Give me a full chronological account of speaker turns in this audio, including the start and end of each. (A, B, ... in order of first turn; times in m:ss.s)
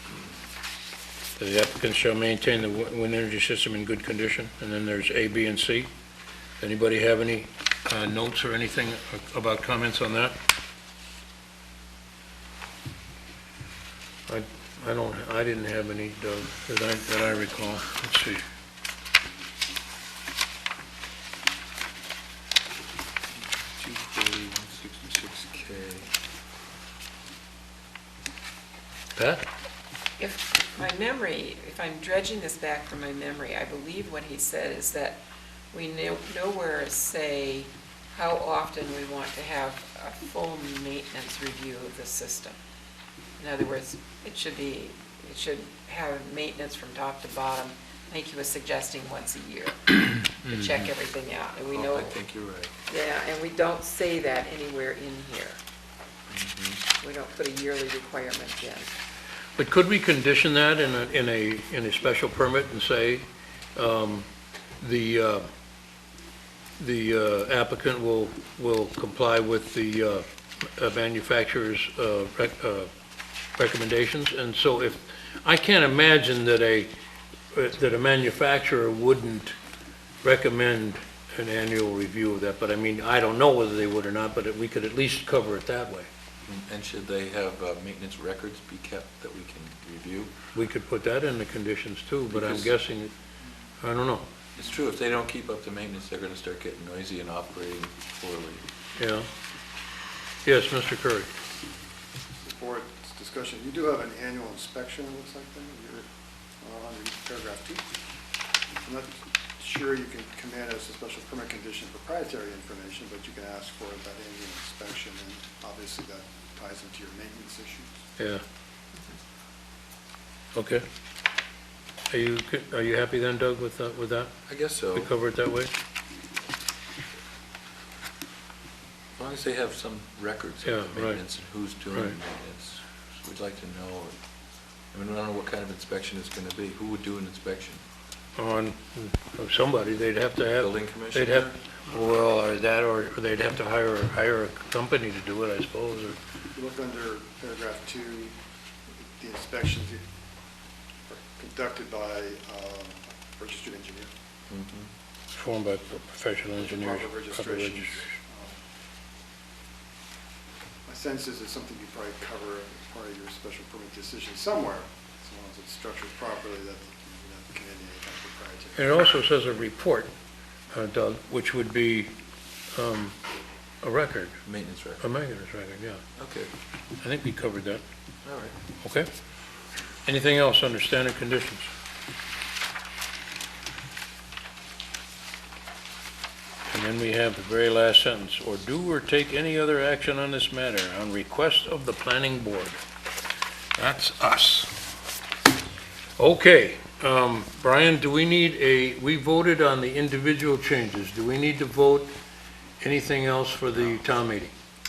0:01.4-0:05.9 A
0:06.6-0:10.4 A
0:14.3-0:18.4 A
0:23.4-0:26.1 B
0:29.2-0:29.5 A
0:30.2-0:42.6 C
0:43.4-0:52.2 C
0:51.7-0:52.7 B
0:52.9-0:55.6 C
0:56.3-0:56.8 B
0:57.0-0:58.9 C
0:59.6-1:04.3 A
1:04.8-1:05.5 A
1:06.8-1:12.9 A
1:13.6-1:16.9 A
1:17.5-1:19.6 A
1:20.2-1:26.1 A
1:26.4-1:30.3 B
1:30.5-1:33.1 A
1:32.3-1:32.7 B
1:33.8-1:34.3 A
1:34.6-1:38.6 B
1:39.0-1:39.3 A
1:40.4-1:41.3 A
1:42.4-1:46.1 D
1:46.6-1:47.9 D
1:48.8-1:58.0 D
2:00.5-2:00.8 A
2:02.1-2:04.3 A
2:04.5-2:05.1 B
2:04.9-2:05.7 A
2:09.2-2:14.2 B
2:10.6-2:11.2 A
2:14.9-2:17.8 B
2:18.4-2:26.2 A
2:20.6-2:21.6 B
2:26.5-2:28.4 D
2:29.2-2:30.0 D
2:31.1-2:34.1 D
2:34.5-2:34.9 B
2:35.3-2:38.0 A
2:36.6-2:38.6 D
2:40.9-2:49.0 D
2:48.8-2:50.1 A
2:50.7-2:52.1 A
2:52.7-2:53.2 A
2:53.8-2:54.4 A
2:54.4-2:55.0 B
2:55.0-2:56.0 A
2:56.2-2:56.5 B
2:57.0-2:57.8 A
2:58.2-2:58.6 B
2:58.8-2:59.1 A
3:00.0-3:01.7 A
3:06.7-3:12.8 A
3:13.8-3:14.7 A
3:16.2-3:22.1 A
3:22.8-3:24.5 A